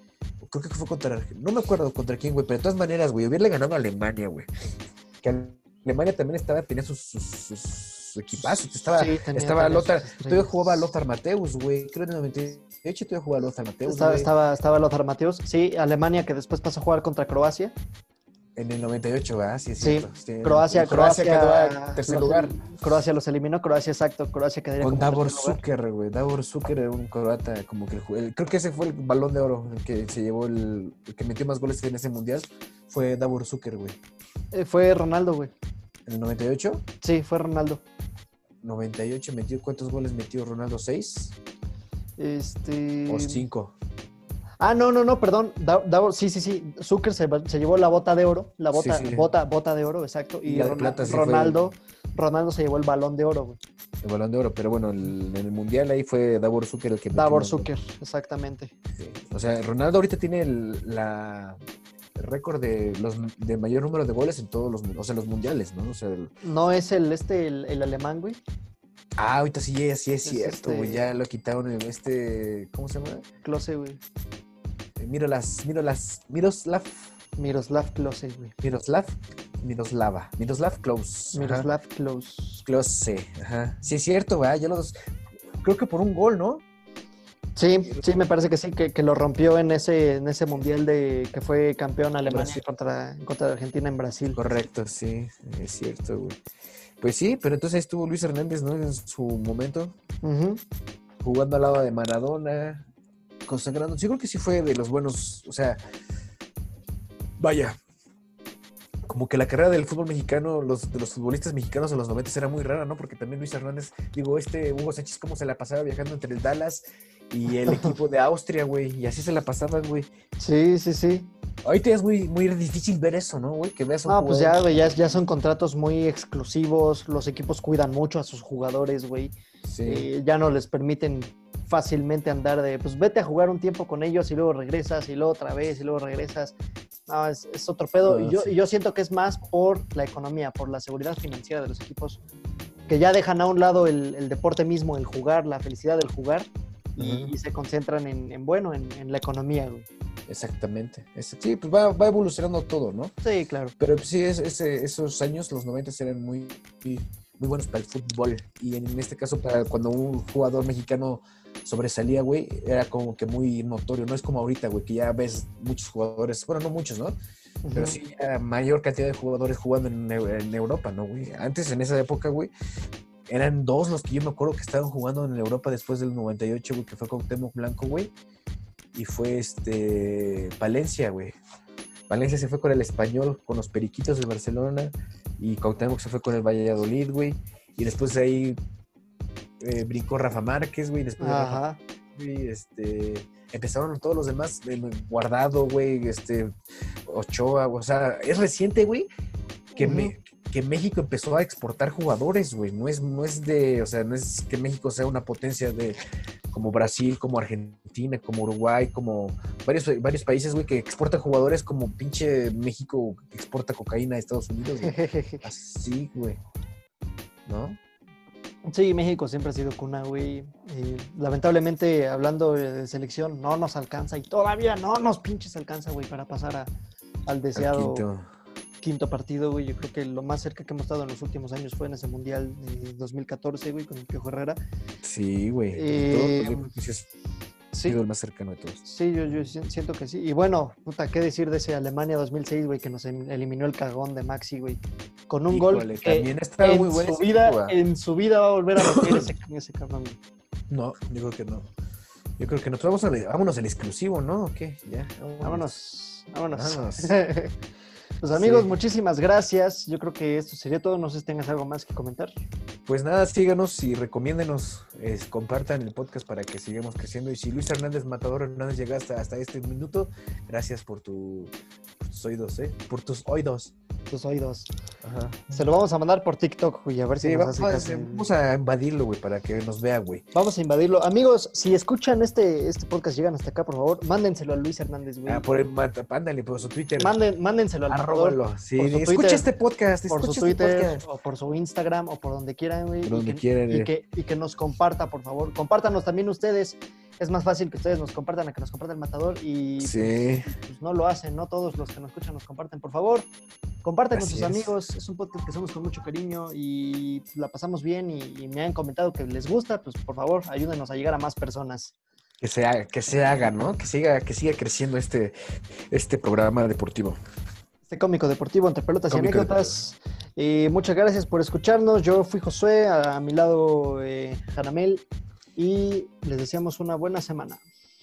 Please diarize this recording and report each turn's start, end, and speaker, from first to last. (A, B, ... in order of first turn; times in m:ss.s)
0:00.4-0:04.5 A
0:05.2-0:14.3 A
0:08.9-0:10.9 B
0:13.8-0:17.8 B
0:18.6-0:22.6 A
0:19.8-0:25.6 B
0:24.8-0:34.0 A
0:34.5-0:35.5 B
0:36.1-0:36.8 A
0:37.0-0:37.8 B
0:38.6-0:41.4 A
0:42.2-0:43.5 B
0:43.1-0:43.7 A
0:44.6-0:53.6 B
0:48.7-0:49.3 A
0:50.5-0:51.6 A
0:54.0-0:57.7 A
0:57.1-0:58.7 B
0:58.9-1:01.6 A
1:02.2-1:06.3 A
1:06.4-1:08.4 B
1:09.2-1:13.2 A
1:10.2-1:11.1 B
1:13.4-1:14.0 B
1:15.0-1:17.1 A
1:17.4-1:18.5 B
1:18.6-1:21.7 A
1:21.3-1:22.6 B
1:22.6-1:24.9 A
1:25.6-1:26.6 A
1:27.6-1:34.4 B
1:32.3-1:32.6 A
1:34.4-1:36.4 A
1:37.0-1:40.0 A
1:40.2-1:40.6 B
1:41.2-1:42.9 A
1:43.5-1:45.8 A
1:47.4-1:47.8 A
1:49.1-2:00.1 A
1:57.6-1:58.0 B
2:00.4-2:01.3 B
2:01.6-2:05.0 A
2:04.1-2:16.6 B
2:09.6-2:10.1 A
2:17.1-2:22.2 B
2:18.0-2:18.5 A
2:22.9-2:29.9 B
2:27.0-2:27.3 A
2:30.3-2:33.1 A
2:33.2-2:33.8 B
2:33.8-2:47.2 A
2:47.6-2:48.0 B
2:47.7-2:52.5 A
2:53.3-2:58.1 A
2:58.9-3:01.4 A
3:02.1-3:08.6 A
3:09.6-3:11.6 A
3:11.2-3:11.8 B
3:12.2-3:16.5 A
3:17.1-3:19.1 A
3:19.7-3:20.1 B
3:19.8-3:26.0 A
3:26.5-3:36.4 A
3:34.8-3:35.4 B
3:37.5-3:37.8 A
3:38.7-3:46.7 B
3:47.3-3:48.0 B
3:47.6-3:48.2 A
3:48.8-3:54.6 B
3:55.0-3:57.1 A
3:55.7-3:56.7 B
3:57.7-3:58.0 B
3:57.8-3:58.8 A
3:58.8-4:10.2 B
4:05.5-4:07.8 A
4:08.8-4:09.2 A
4:10.7-4:11.7 A
4:12.4-4:15.7 A
4:15.4-4:17.5 B
4:16.5-4:17.2 A
4:18.2-4:22.3 B
4:18.4-4:18.7 A
4:22.9-4:33.7 A
4:34.1-4:34.7 B
4:35.0-4:35.6 A
4:35.5-4:38.3 B
4:37.2-4:40.2 A
4:40.3-4:45.5 B
4:45.3-4:47.2 A
4:47.0-4:49.5 B
4:47.9-4:51.0 A
4:50.1-5:03.3 B
4:53.0-4:53.9 A
4:59.8-5:00.5 A
5:03.8-5:11.9 B
5:04.1-5:04.7 A
5:12.4-5:15.4 A
5:15.9-5:17.2 A
5:17.9-5:25.0 B
5:19.1-5:19.8 A
5:25.6-5:27.6 B